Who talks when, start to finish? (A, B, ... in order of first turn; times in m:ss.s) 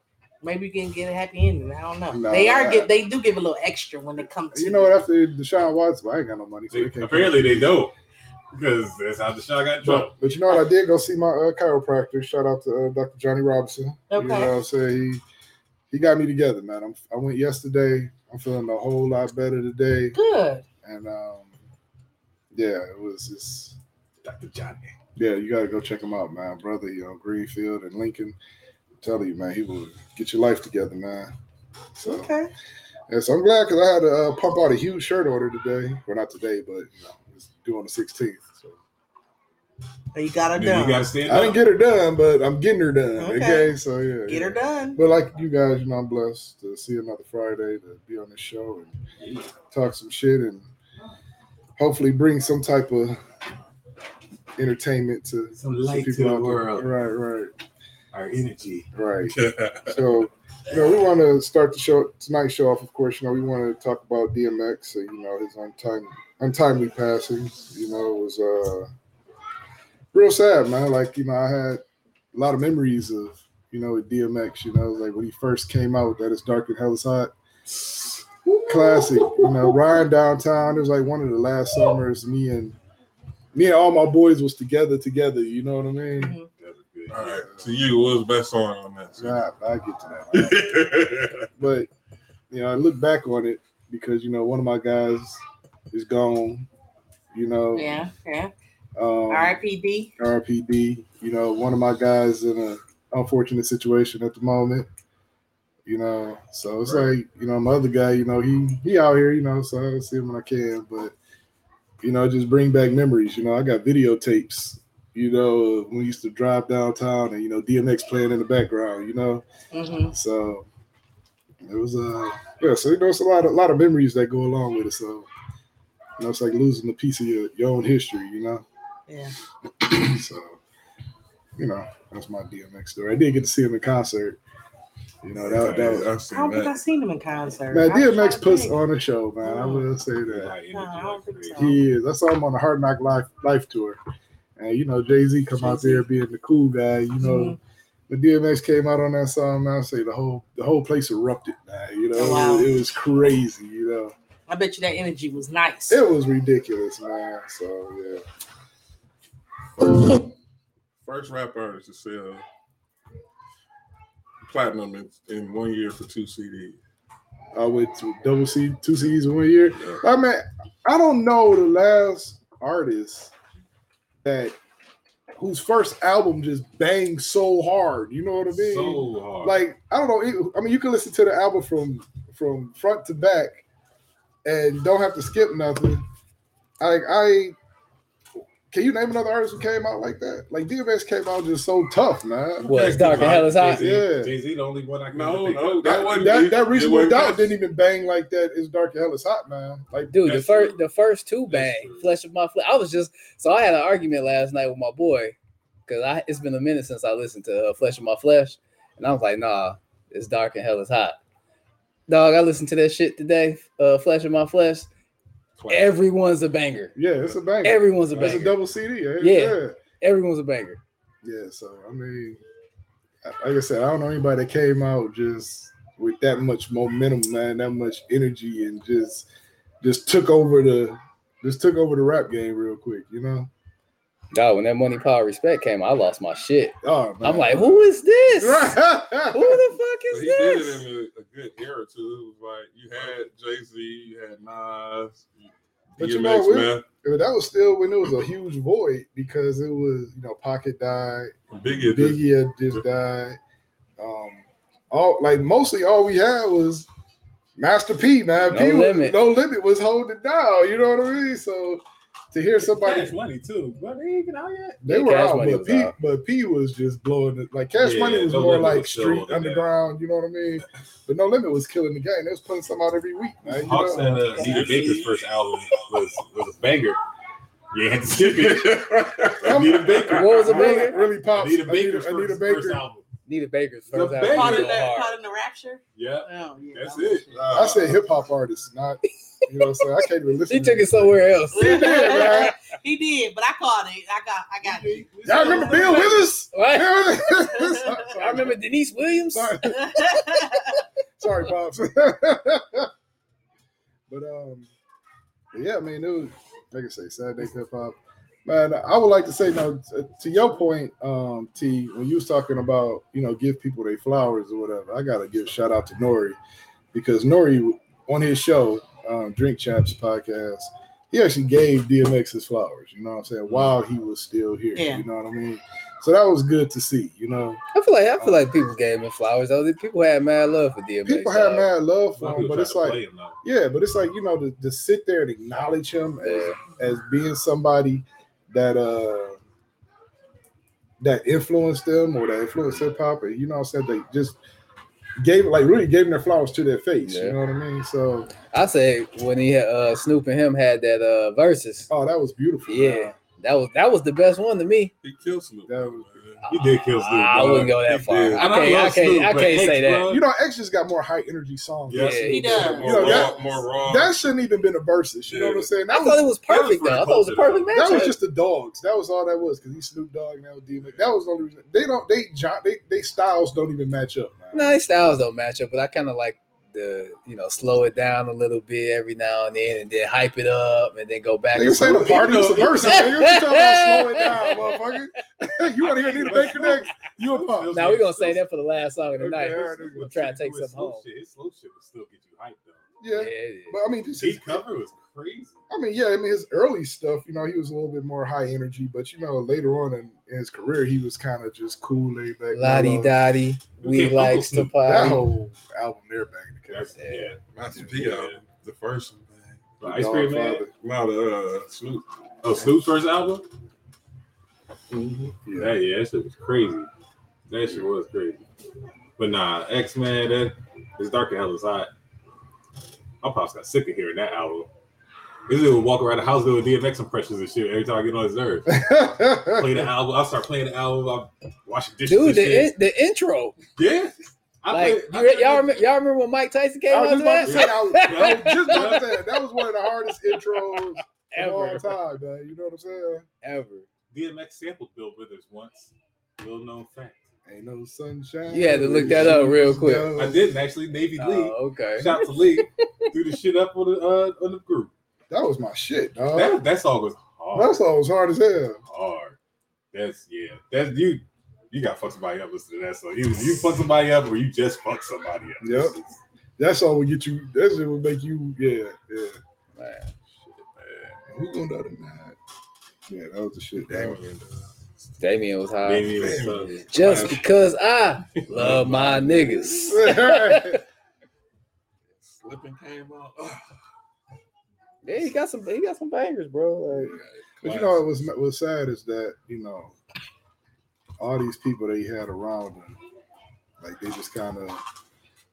0:00.4-0:05.0 A
0:02.1-0:02.9 B
0:04.5-0:07.8 B
0:06.7-0:07.9 C
0:08.5-0:10.1 C
0:09.8-0:15.2 B
0:14.1-0:14.5 A
0:15.9-0:20.2 B
0:20.1-0:20.6 A
0:20.8-0:21.5 B
0:22.5-0:23.8 B
0:24.2-0:24.9 C
0:25.2-0:28.4 B
0:29.0-0:31.3 B
0:32.0-0:32.3 B
0:32.0-0:32.5 A
0:33.1-0:38.8 B
0:40.1-0:41.1 A
0:40.5-0:41.6 C
0:41.2-0:49.0 B
0:43.2-0:43.7 A
0:44.3-0:45.0 A
0:49.2-0:49.5 C
0:49.7-0:50.7 B
0:51.8-0:53.2 B
0:54.6-0:57.5 B
0:55.6-0:56.9 C
0:58.1-0:58.9 C
0:59.0-0:59.4 B
0:59.2-1:00.2 D
0:59.9-1:08.9 B
1:10.1-1:11.8 B
1:12.3-1:17.3 B
1:18.6-1:22.8 B
1:23.5-1:26.4 B
1:26.2-1:26.5 A
1:26.6-1:27.5 C
1:27.1-1:29.4 D
1:29.2-1:30.7 B
1:30.3-1:31.5 D
1:31.6-1:31.9 B
1:32.5-1:36.7 B
1:37.3-1:38.0 B
1:37.7-1:38.5 A
1:39.0-1:39.6 B
1:39.3-1:40.1 A
1:40.2-1:44.9 B
1:45.9-1:51.1 B
1:52.0-1:59.4 B
1:59.7-2:00.1 A
2:00.1-2:00.6 B
2:01.6-2:05.3 B
2:06.2-2:08.6 B
2:09.1-2:09.4 A
2:09.8-2:10.6 B
2:11.6-2:14.4 B
2:15.2-2:16.1 B
2:15.4-2:16.8 D
2:16.3-2:18.8 A
2:17.7-2:20.5 B
2:19.4-2:19.9 A
2:20.2-2:21.6 C
2:20.7-2:21.8 A
2:21.6-2:24.0 B
2:24.6-2:27.6 B
2:25.6-2:26.0 A
2:27.2-2:27.6 A
2:28.1-2:34.1 B
2:32.2-2:32.7 A
2:34.5-2:36.0 A
2:35.9-2:38.2 B
2:41.0-2:42.4 D
2:44.4-2:46.8 D
2:47.5-2:53.3 B
2:54.2-2:54.6 B
2:55.4-3:03.6 B
2:58.5-2:59.6 C
3:04.4-3:06.0 B
3:06.8-3:07.6 B
3:08.7-3:14.3 B
3:12.6-3:16.5 C
3:12.6-3:13.8 E
3:15.1-3:17.6 D
3:16.0-3:20.2 B
3:20.1-3:25.4 E
3:20.2-3:20.8 C
3:21.5-3:22.2 C
3:25.9-3:31.2 E
3:32.1-3:34.9 E
3:35.6-3:35.9 C
3:35.7-3:37.0 E
3:37.0-3:39.8 B
3:37.6-3:38.6 E
3:38.1-3:38.5 C
3:39.2-3:40.8 E
3:41.2-3:42.4 B
3:43.2-3:49.2 B
3:49.8-3:53.5 B
3:54.3-3:58.8 E
3:56.8-3:59.6 B
3:59.3-4:00.8 E
4:00.1-4:06.8 D
4:06.0-4:13.4 B
4:11.5-4:12.2 D
4:14.0-4:16.9 B
4:17.6-4:23.1 B
4:18.5-4:19.2 E
4:22.6-4:24.8 C
4:24.8-4:34.2 B
4:24.9-4:25.9 E
4:27.8-4:29.6 C
4:33.5-4:37.0 C
4:34.3-4:35.8 D
4:37.7-4:43.0 C
4:38.2-4:39.7 D
4:39.4-4:42.8 B
4:40.1-4:41.0 E
4:43.3-4:45.2 E
4:43.9-4:44.9 C
4:44.3-4:47.6 A
4:46.0-4:47.4 C
4:47.3-4:48.1 D
4:47.5-4:52.6 B
4:49.6-4:49.9 E
4:50.5-4:52.6 E
4:51.5-4:56.1 A
4:54.6-4:56.3 C
4:55.2-4:58.6 B
4:56.5-4:57.5 E
4:57.5-4:58.0 A
4:58.1-4:59.6 E
4:59.3-5:00.5 B
4:59.8-5:00.8 A
5:01.2-5:02.9 B
5:04.1-5:04.7 B
5:05.5-5:16.4 B
5:16.9-5:27.6 B
5:24.8-5:25.0 A
5:27.7-5:31.7 E
5:28.2-5:28.5 B
5:31.0-5:39.4 B
5:32.2-5:33.4 C
5:36.2-5:36.6 E
5:41.0-5:44.4 B
5:45.2-5:48.3 B
5:47.0-5:47.4 E
5:48.5-5:51.9 E
5:51.9-5:53.2 B
5:52.7-5:54.9 E
5:55.0-5:56.4 D
5:55.7-5:56.1 B
5:56.4-6:00.1 E
5:56.5-6:00.2 C
5:57.6-5:58.5 D
6:00.1-6:06.2 B
6:01.9-6:02.8 C
6:01.9-6:02.8 E
6:02.0-6:04.2 D
6:02.3-6:03.3 A
6:05.3-6:05.7 D
6:05.9-6:08.2 E
6:06.5-6:08.1 C
6:07.7-6:14.8 B
6:14.5-6:24.6 E
6:21.5-6:27.8 B
6:22.1-6:23.1 C
6:26.0-6:28.4 C
6:26.3-6:26.7 E
6:27.7-6:31.0 E
6:29.2-6:30.2 B
6:29.2-6:32.8 C
6:33.0-6:34.6 B
6:33.1-6:33.8 E
6:34.2-6:35.6 C
6:35.7-6:43.2 B
6:42.5-6:45.2 E
6:43.8-6:44.7 C
6:44.8-6:46.9 B
6:46.7-6:48.4 C
6:47.0-6:47.4 E
6:47.5-6:49.7 D
6:49.8-6:50.6 C
6:49.8-6:50.7 B
6:50.8-6:52.0 D
6:52.4-6:53.5 C
6:55.4-6:55.8 B
6:55.5-6:56.9 C
6:57.5-6:58.4 C
6:59.2-7:01.9 C
7:03.2-7:04.7 C
7:05.5-7:08.9 C
7:08.7-7:09.9 B
7:09.4-7:12.7 C
7:12.1-7:13.6 E
7:13.8-7:15.8 C
7:14.7-7:19.2 E
7:16.9-7:23.2 B
7:17.4-7:19.2 C
7:20.3-7:22.0 E
7:23.4-7:23.9 E
7:24.1-7:27.3 C
7:27.5-7:30.5 B
7:28.5-7:30.1 E
7:30.2-7:34.9 C
7:31.2-7:32.7 E
7:35.3-7:36.6 B
7:36.3-7:37.8 C
7:37.5-7:38.8 B
7:38.9-7:39.4 C
7:39.9-7:46.2 C
7:45.6-7:46.0 B
7:46.6-7:49.4 B
7:49.8-7:50.1 E
7:50.6-7:51.2 D
7:51.3-7:52.4 B
7:53.1-7:54.2 B
7:53.8-7:54.7 D
7:55.2-7:56.1 E
7:55.8-7:57.3 C
7:56.1-7:57.4 D
7:56.9-8:00.8 E
7:58.5-7:59.3 D
7:58.5-7:59.4 C
7:59.8-8:00.8 B
8:02.2-8:03.6 D
8:05.0-8:07.1 E
8:07.1-8:08.0 D
8:07.6-8:09.9 B
8:11.2-8:13.0 B
8:13.8-8:14.8 B